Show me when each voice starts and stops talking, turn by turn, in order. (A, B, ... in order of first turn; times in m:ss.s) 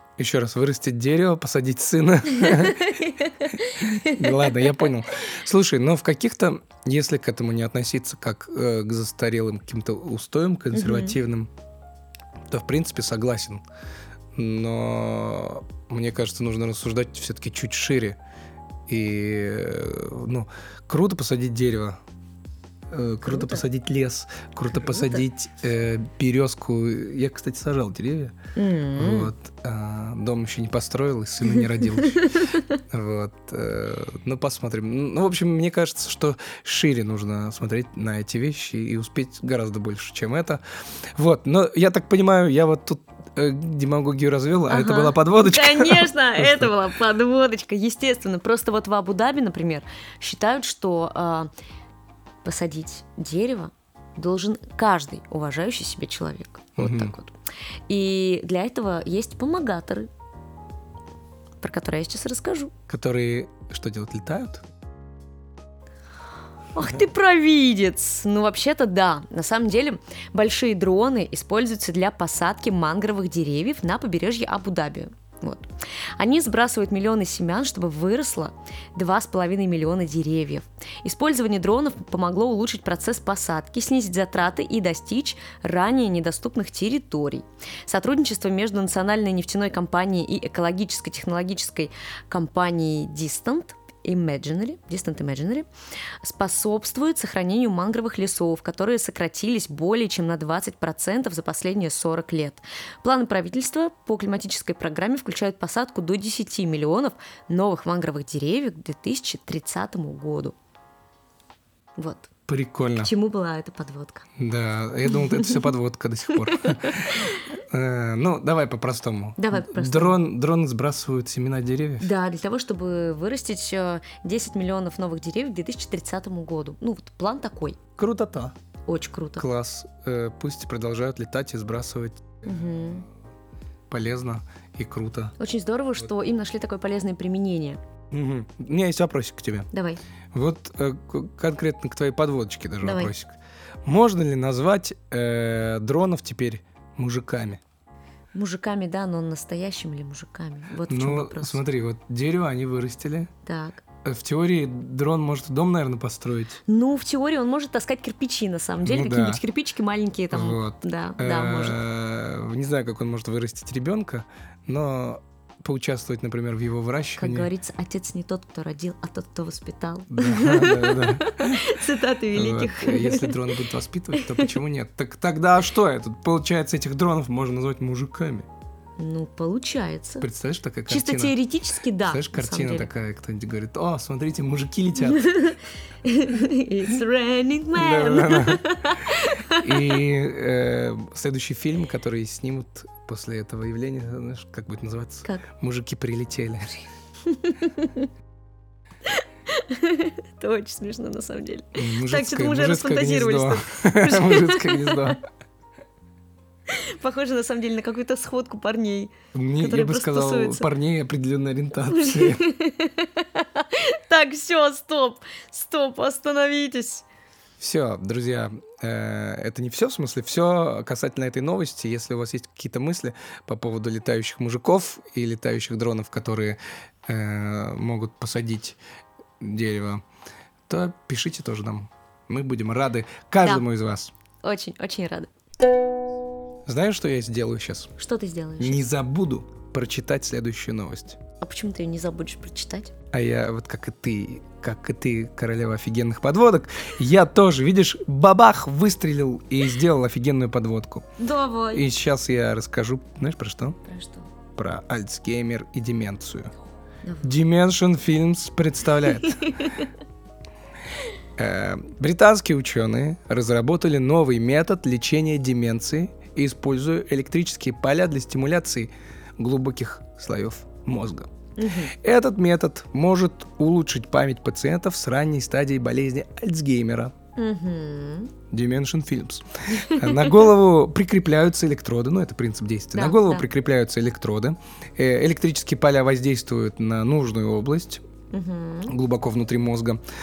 0:00.2-0:11.5 A
0:02.4-0:04.9 B
0:10.7-0:11.2 B
0:12.5-0:13.6 A
0:14.3-0:18.2 A
0:18.9-0:22.0 A
0:22.9-0:28.4 A
0:23.2-0:23.6 B
0:24.8-0:25.2 B
0:28.6-0:29.3 B
0:29.0-0:40.6 A
0:31.5-0:32.8 B
0:41.1-0:46.7 A
0:44.7-0:51.5 B
0:52.4-0:57.4 B
0:56.8-0:57.1 A
0:57.9-1:00.1 B
1:01.6-1:02.7 B
1:02.9-1:04.6 A
1:06.7-1:35.7 B
1:36.2-1:50.6 B
1:52.0-1:52.3 B
1:52.5-1:53.1 A
1:53.0-1:54.2 B
1:54.4-2:02.1 A
1:55.1-1:55.7 B
1:56.4-1:57.5 B
1:59.4-2:00.2 B
2:02.0-2:07.8 B
2:08.0-2:08.5 A
2:08.8-2:09.4 B
2:09.4-2:12.4 A
2:12.4-2:13.0 B
2:13.9-2:15.3 A
2:15.4-2:17.8 B
2:18.1-2:19.7 A
2:19.7-2:20.0 B
2:20.3-2:27.6 A
2:22.8-2:23.1 B
2:28.3-2:31.6 B
2:30.8-2:33.3 A
2:33.4-2:33.8 B
2:34.0-2:36.6 A
2:36.7-2:41.8 B
2:38.8-2:39.4 A
2:40.3-2:47.5 A
2:47.2-2:53.6 B
2:50.1-2:51.7 A
2:52.3-2:58.5 A
2:54.1-2:54.5 B
2:59.0-3:00.2 B
3:00.2-3:01.4 A
3:00.9-3:02.9 B
3:02.0-3:05.4 A
3:05.0-3:10.0 B
3:07.7-3:16.8 A
3:17.2-3:18.1 B
3:19.0-3:25.2 B
3:21.7-3:25.2 A
3:26.7-3:30.7 B
3:29.3-3:32.5 A
3:31.8-3:37.0 B
3:37.6-3:48.8 A
3:49.4-3:50.0 A
3:50.7-3:54.1 A
3:54.4-3:55.3 B
3:56.7-3:57.9 A
3:58.0-3:58.8 B
3:58.6-4:01.2 A
4:01.4-4:02.9 B
4:03.1-4:11.1 A
4:11.2-4:11.8 B
4:11.7-4:13.8 A
4:13.8-4:14.3 B
4:14.5-4:16.5 A
4:17.0-4:17.3 B
4:17.2-4:19.6 A
4:19.2-4:19.9 B
4:21.4-4:31.3 A
4:31.6-4:31.9 B
4:31.9-4:37.1 A
4:37.4-4:38.3 B
4:38.5-4:48.0 A
4:39.7-4:40.5 B
4:42.9-4:43.4 B
4:48.3-4:48.9 B
4:48.8-4:50.0 A